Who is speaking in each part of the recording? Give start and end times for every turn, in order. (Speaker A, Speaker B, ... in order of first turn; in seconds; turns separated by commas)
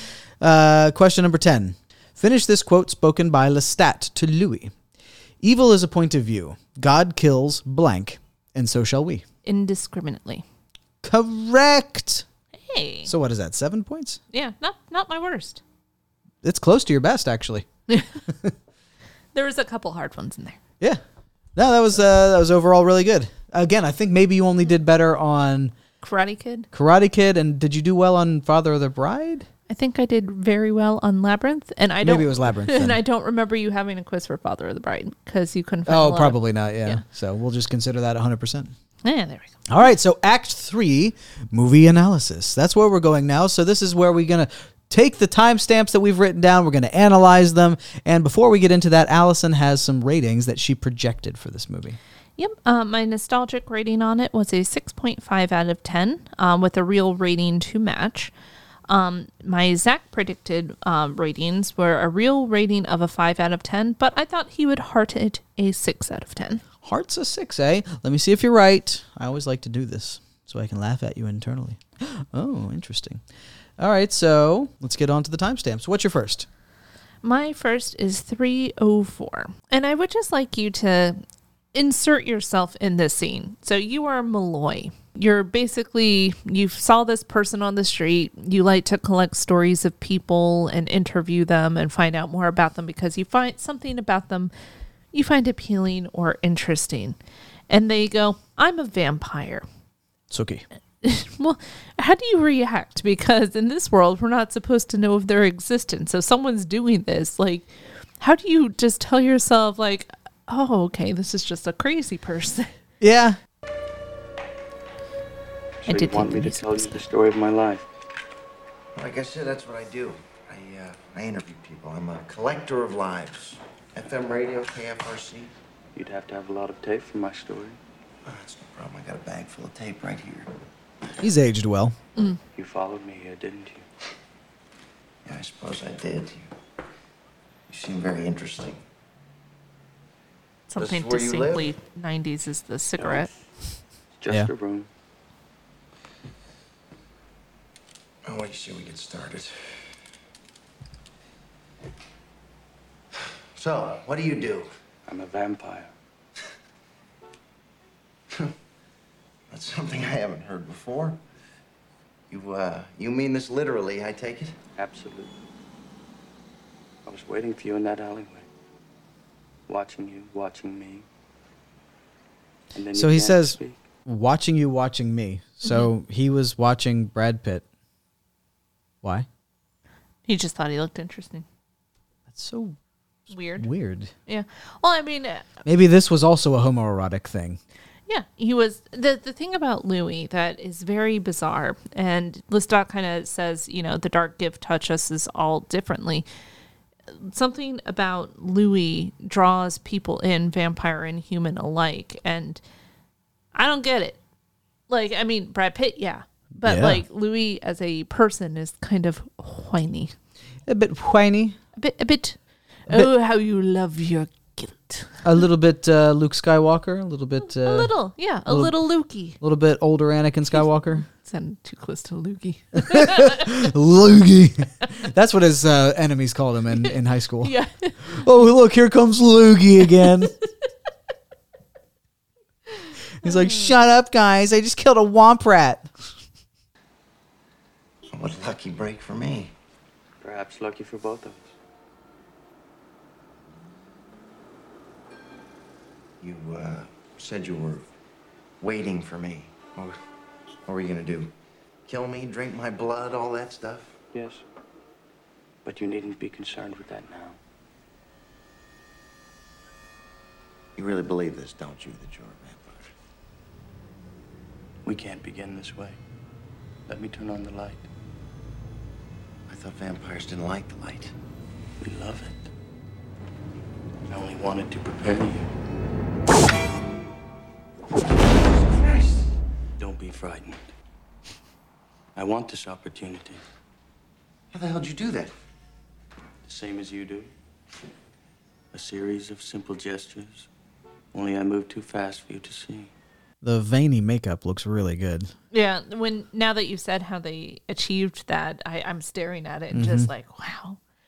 Speaker A: 0.4-4.7, Speaker A: 5.4-9.2, Speaker B: 9.4-10.4, Speaker A: 11.0-12.2, Speaker B: 12.5-13.1, Speaker A: 13.1-14.2, Speaker B: 14.3-15.6, Speaker A: 16.4-17.6, Speaker B: 19.3-20.6, Speaker A: 21.6-25.7, Speaker B: 26.0-26.7, Speaker A: 26.7-29.5, Speaker B: 29.7-37.0, Speaker A: 32.0-33.0, Speaker A: 35.9-38.7, Speaker B: 39.0-39.6, Speaker A: 39.7-52.0, Speaker B: 52.4-58.3, Speaker B: 58.9-66.6, Speaker A: 66.8-73.2, Speaker A: 73.8-76.5, Speaker B: 77.2-81.2, Speaker B: 81.7-94.5, Speaker B: 95.1-97.2, Speaker B: 97.7-99.6, Speaker A: 100.3-100.6, Speaker B: 101.0-112.7, Speaker A: 113.0-113.4, Speaker C: 115.8-117.9, Speaker B: 115.8-116.9, Speaker D: 118.9-125.5, Speaker C: 125.9-127.8, Speaker D: 128.2-130.5, Speaker A: 131.2-132.0, Speaker C: 132.5-133.8, Speaker D: 135.2-136.5, Speaker D: 137.7-138.8, Speaker B: 140.7-143.3, Speaker D: 140.8-141.7, Speaker C: 143.0-143.3, Speaker C: 144.2-144.9, Speaker D: 148.2-149.8, Speaker D: 153.5-154.7, Speaker C: 155.1-155.9, Speaker D: 159.5-161.2, Speaker D: 162.3-164.6, Speaker C: 164.8-165.4, Speaker C: 167.1-168.5, Speaker C: 169.7-171.1, Speaker C: 172.7-173.8, Speaker A: 172.9-177.6, Speaker B: 180.2-181.4, Speaker A: 182.3-182.8, Speaker B: 183.3-183.7, Speaker A: 183.6-184.1, Speaker B: 184.3-185.5, Speaker A: 185.6-187.6, Speaker B: 188.1-196.2, Speaker B: 197.1-202.6, Speaker B: 203.5-204.2, Speaker B: 204.9-210.1, Speaker A: 206.6-207.0, Speaker A: 210.7-211.6, Speaker B: 211.7-215.2, Speaker A: 215.2-217.9, Speaker B: 217.5-219.4, Speaker A: 218.5-218.7, Speaker A: 219.4-221.1, Speaker B: 220.9-223.6, Speaker A: 222.8-230.3, Speaker B: 226.8-228.1, Speaker B: 229.8-230.3, Speaker A: 233.2-235.9, Speaker B: 233.2-233.7, Speaker D: 238.1-239.5, Speaker C: 240.2-241.5, Speaker D: 246.2-247.9, Speaker D: 248.6-250.0, Speaker D: 250.7-251.3, Speaker D: 251.9-254.0, Speaker C: 254.1-254.4, Speaker C: 255.6-257.4, Speaker D: 260.8-262.9, Speaker C: 264.8-266.0, Speaker C: 266.9-267.9, Speaker D: 269.5-271.1, Speaker C: 271.8-272.5, Speaker C: 274.1-275.5, Speaker D: 278.2-279.3, Speaker C: 279.8-280.6, Speaker C: 282.1-283.4, Speaker D: 284.5-285.3, Speaker C: 286.4-287.3, Speaker C: 288.7-290.5, Speaker C: 291.1-292.9, Speaker A: 293.4-295.3, Speaker B: 295.5-300.8, Speaker A: 299.7-300.1